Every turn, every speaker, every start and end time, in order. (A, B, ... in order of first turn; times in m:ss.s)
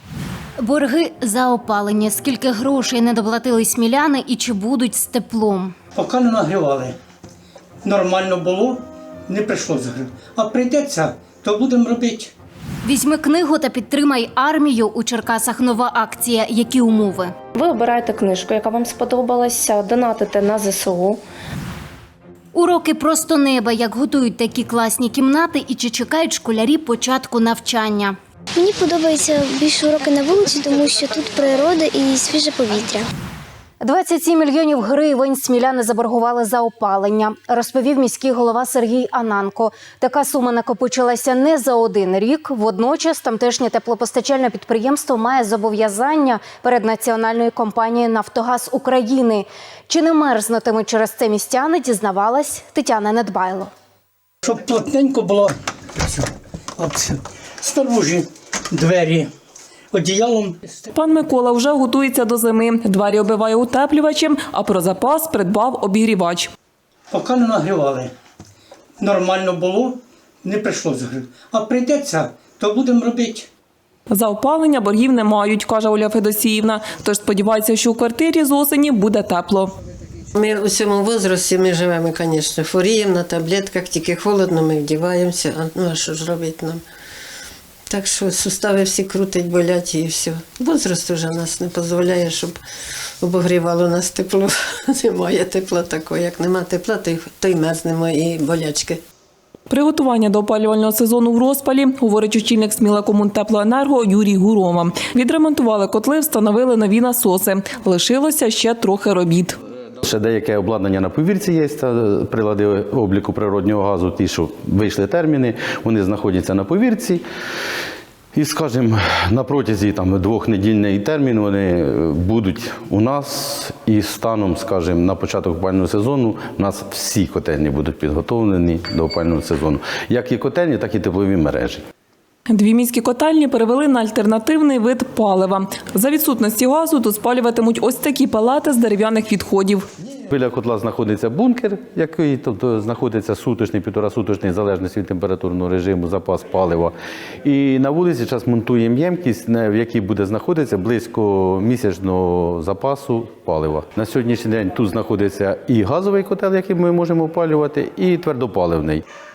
0:00.6-0:05.8 A
0:06.0-0:07.0 B
0:07.8-0:12.3 B
0:12.8-0:17.4 A
0:17.6-0:21.2 C
0:22.5-0:28.2 A
0:28.6-0:33.1 D
0:33.8-0:53.7 A
0:54.4-0:56.2 B
0:56.8-0:59.3 B
0:59.9-1:00.8 B
1:00.9-1:06.5 E
1:07.1-1:08.1 B
1:09.0-1:13.5 B
1:14.1-1:19.7 E
1:20.4-1:26.8 F
1:27.9-1:32.6 F
1:33.2-1:39.0 F
1:39.7-1:49.6 E
1:50.0-1:57.2 G
1:58.4-2:11.8 G
2:12.5-2:19.9 E
2:20.3-2:39.0 G